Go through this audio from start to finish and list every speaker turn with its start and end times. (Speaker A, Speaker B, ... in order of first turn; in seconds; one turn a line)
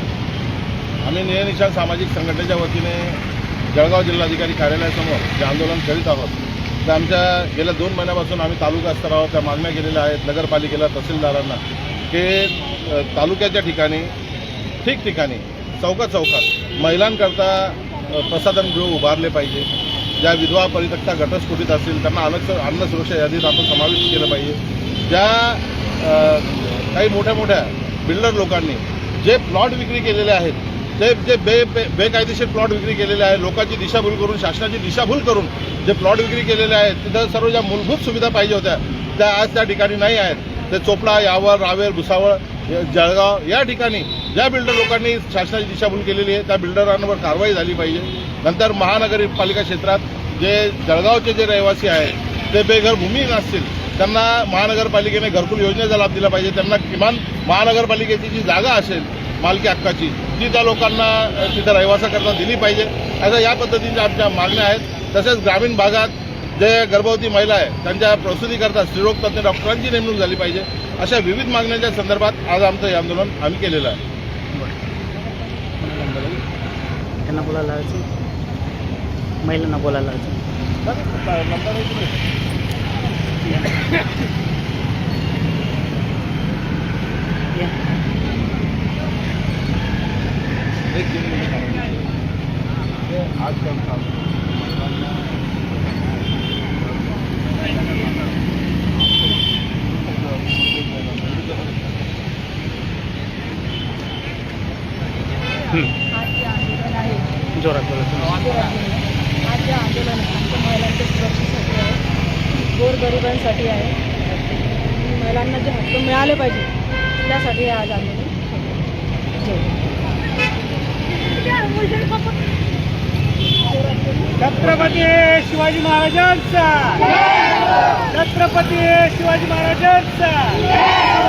Speaker A: 1.0-3.2
Speaker A: 3.7-14.1
Speaker A: 14.8-19.7
Speaker A: 20.2-74.0
Speaker B: 75.8-76.4
Speaker B: 77.2-78.1
Speaker B: 79.4-80.4
Speaker A: 81.0-82.0
Speaker B: 93.5-93.9
Speaker B: 100.7-101.6
Speaker C: 106.2-107.3
Speaker B: 107.6-108.3
Speaker C: 108.3-112.0
Speaker C: 112.7-114.0
Speaker C: 114.7-116.7
Speaker C: 117.2-118.4
Speaker D: 124.4-130.9
Speaker B: 128.1-130.3